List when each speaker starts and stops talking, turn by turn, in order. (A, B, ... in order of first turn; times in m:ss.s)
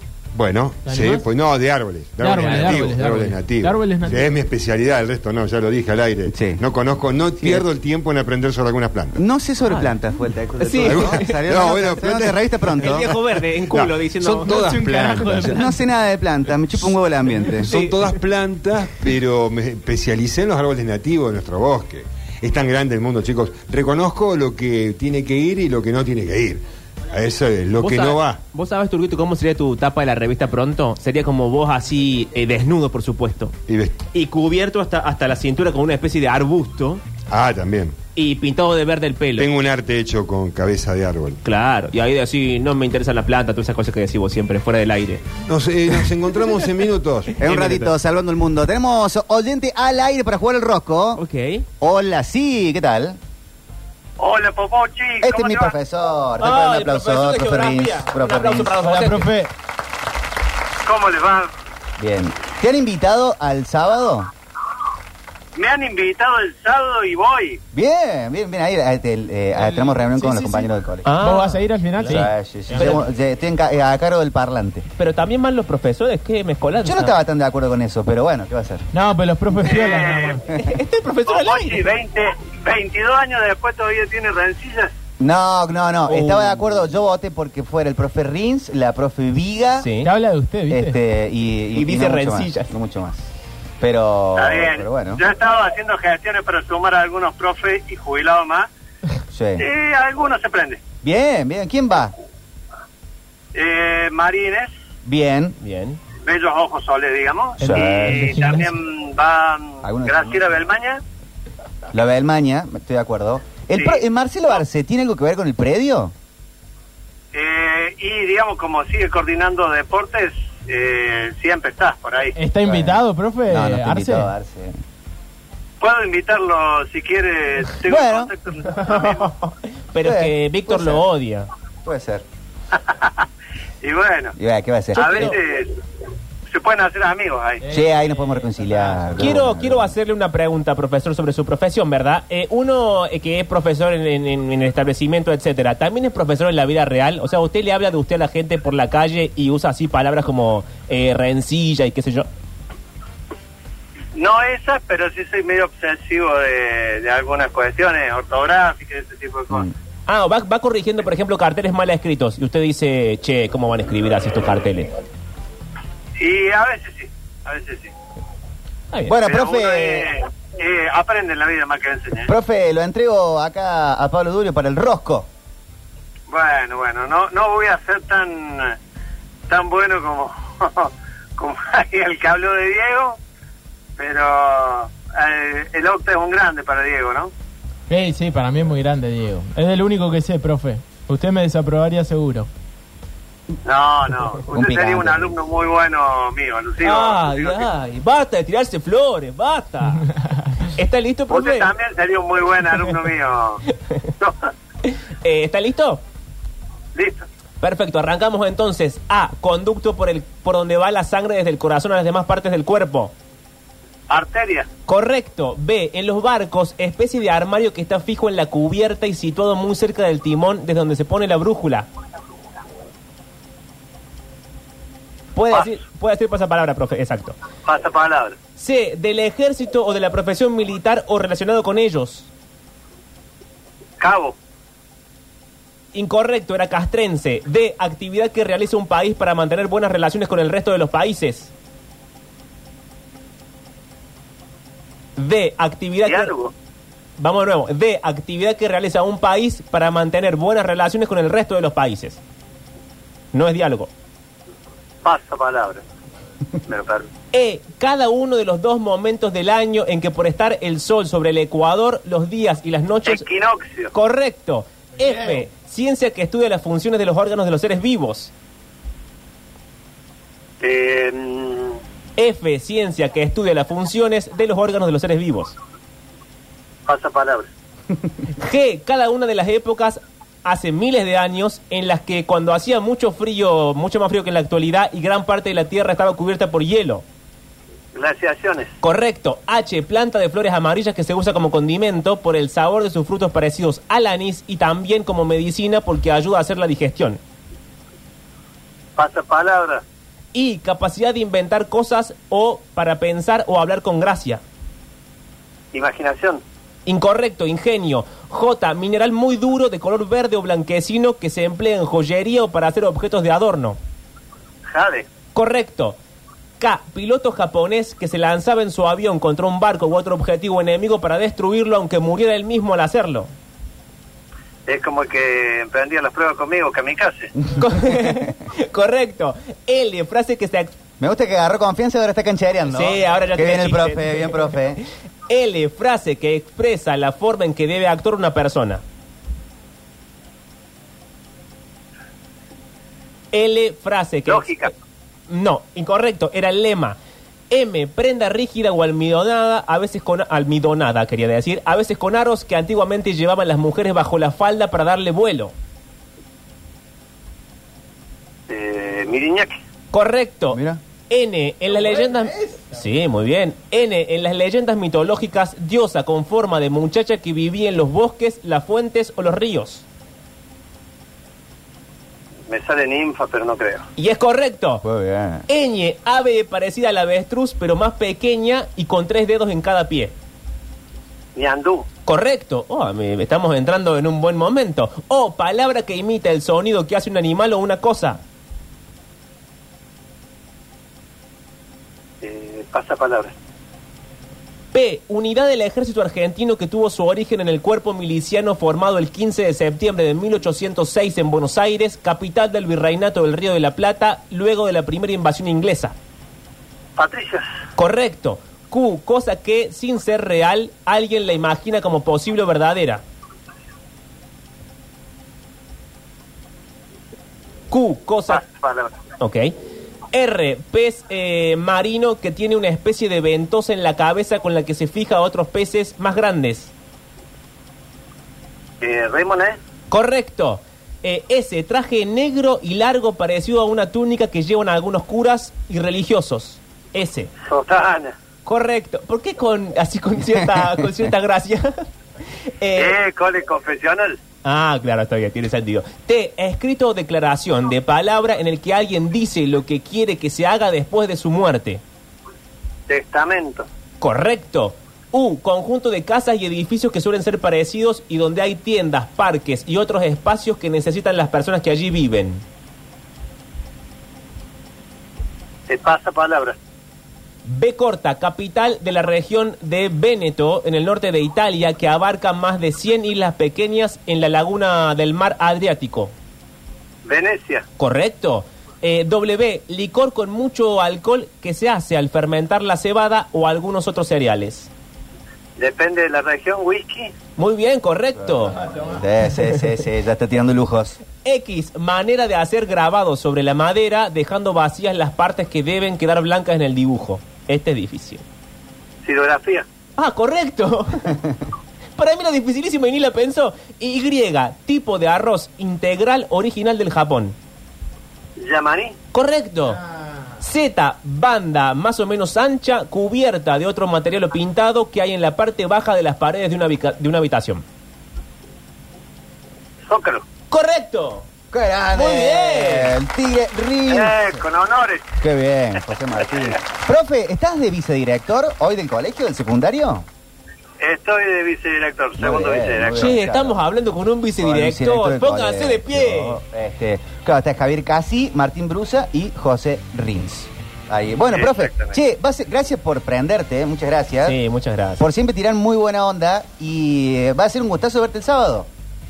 0:00.4-0:09.2 A
0:00.9-0:01.3 B
0:02.2-0:04.3 B
0:02.4-0:02.8 C
0:06.3-0:06.6 D
0:07.4-0:07.7 D
0:09.2-0:13.1 D
0:09.6-0:09.9 C
0:10.6-0:11.4 C
0:10.8-0:15.6 A
0:12.8-0:14.6 C
0:14.4-0:15.8 B
0:15.4-0:17.7 D
0:17.5-0:28.4 A
0:17.6-0:18.2 C
0:27.8-0:33.6 C
0:33.7-0:34.0 A
0:34.1-0:37.0 C
0:37.3-0:38.0 A
0:38.2-0:39.5 C
0:39.4-0:41.4 A
0:41.4-0:45.3 C
0:45.5-0:47.7 A
0:47.4-0:51.2 D
0:47.5-0:47.9 C
0:51.2-0:51.6 C
0:51.8-0:53.2 D
0:54.2-0:55.7 E
0:55.2-0:59.0 D
0:56.4-0:59.3 C
0:58.9-0:59.5 B
1:00.8-1:01.5 E
1:02.0-1:04.3 D
1:05.6-1:07.6 E
1:07.7-1:11.2 D
1:09.6-1:12.9 B
1:11.0-1:13.0 C
1:12.1-1:14.9 D
1:15.0-1:17.1 C
1:16.8-1:18.8 D
1:18.9-1:20.4 B
1:19.6-1:20.4 E
1:20.5-1:21.9 C
1:21.3-1:24.9 E
1:25.2-1:29.9 D
1:26.1-1:26.8 C
1:29.8-1:30.1 C
1:30.0-1:31.0 B
1:30.7-1:33.3 D
1:31.7-1:32.7 C
1:33.8-1:35.2 D
1:34.4-1:38.7 E
1:39.3-1:39.7 D
1:39.6-1:40.8 E
1:41.0-1:42.1 D
1:43.6-1:44.7 E
1:45.0-1:45.6 D
1:45.6-1:46.0 C
1:46.2-1:51.0 E
1:47.6-1:48.4 D
1:47.6-1:48.7 B
1:49.8-1:50.4 D
1:51.9-1:56.1 D
1:53.8-1:54.0 E
1:57.3-2:02.4 E
2:02.4-2:04.3 B
2:02.6-2:04.8 D
2:05.8-2:09.3 E
2:07.8-2:08.3 D
2:08.9-2:11.5 C
2:10.0-2:11.0 D
2:11.8-2:12.2 D
2:12.7-2:13.2 E
2:13.8-2:14.4 E
2:14.4-2:15.4 D
2:14.9-2:15.4 C
2:15.0-2:15.7 E
2:16.5-2:17.6 E
2:17.6-2:19.3 B
2:17.7-2:19.9 D
2:19.2-2:32.3 C
2:34.2-2:39.7 E
2:40.1-2:44.9 C
2:46.2-2:47.9 E
2:48.9-2:49.2 C
2:49.1-2:50.1 D
2:49.2-2:52.3 E
2:52.3-2:55.3 D
2:56.3-2:58.8 E
2:59.5-3:03.2 E
3:04.0-3:07.3 E
3:07.9-3:12.5 B
3:13.6-3:17.7 E
3:14.5-3:15.4 D
3:16.8-3:20.1 C
3:20.2-3:20.5 B
3:20.7-3:21.7 C
3:21.3-3:23.6 E
3:24.2-3:24.5 E
3:24.8-3:26.0 C
3:27.0-3:27.2 E
3:27.6-3:33.1 C
3:34.1-3:34.7 E
3:34.9-3:41.9 C
3:45.4-3:47.4 C
3:47.7-3:48.4 E
3:48.6-3:52.3 C
3:54.0-3:54.4 E
3:55.9-4:01.5 C
4:05.2-4:06.3 C
4:06.1-4:06.5 E
4:07.2-4:12.2 C
4:13.3-4:13.9 C
4:15.0-4:15.8 E
4:16.7-4:17.1 E
4:17.3-4:23.3 C
4:23.1-4:23.9 E
4:23.9-4:28.3 C
4:30.6-4:31.8 E
4:32.2-4:35.6 C
4:36.9-4:37.5 E
4:38.4-4:47.0 C
4:47.9-4:48.7 E
4:48.8-4:57.2 C
4:59.0-4:59.8 E
5:00.3-5:04.4 C
5:05.7-5:06.4 E
5:06.9-5:13.8 C
5:14.7-5:15.0 E
5:15.4-5:16.0 C
5:16.6-5:23.3 C
5:24.7-5:27.3 E
5:27.6-5:30.7 C
5:31.0-5:34.8 D
5:32.7-5:38.8 C
5:43.3-5:44.7 C
5:44.3-5:44.7 E
5:45.3-5:47.0 C
5:47.5-5:55.5 C
5:58.5-5:59.6 E
5:59.9-6:09.8 C
6:00.5-6:00.8 D
6:12.5-6:13.8 E
6:14.0-6:14.8 C
6:14.8-6:15.4 D
6:15.5-6:20.1 C
6:21.4-6:21.9 E
6:22.1-6:28.2 C
6:32.2-6:33.3 E
6:34.7-6:46.0 C
6:47.0-6:47.4 E
6:47.8-6:53.0 C
6:57.7-6:58.4 C
6:58.3-6:58.9 E
6:59.2-6:59.5 C
7:00.1-7:06.7 C
7:08.8-7:09.6 E
7:09.9-7:17.3 C
7:17.4-7:18.2 E
7:18.5-7:21.8 C
7:20.4-7:20.8 D
7:22.6-7:23.0 C
7:22.8-7:24.2 E
7:24.4-7:31.8 C
7:32.9-7:33.7 E
7:34.0-7:42.4 C
7:45.7-7:46.6 E
7:47.4-7:56.1 C
7:57.0-7:57.6 E
7:57.8-8:04.7 C
8:05.6-8:07.1 E
8:07.4-8:08.6 C
8:08.5-8:11.0 D
8:11.2-8:18.2 C
8:19.0-8:19.7 E
8:20.0-8:21.1 C
8:22.0-8:27.4 C
8:28.4-8:29.0 E
8:29.1-8:29.8 C
8:30.4-8:37.6 C
8:39.9-8:40.2 E
8:40.5-8:41.3 C
8:41.5-8:44.4 D
8:41.9-8:43.0 C
8:43.9-8:45.1 E
8:45.2-8:50.0 D
8:50.8-8:53.2 E
8:52.2-8:53.6 D
8:53.0-8:56.4 C
8:54.4-9:04.4 D
9:01.4-9:02.0 E
9:04.2-9:05.0 C
9:05.0-9:08.7 D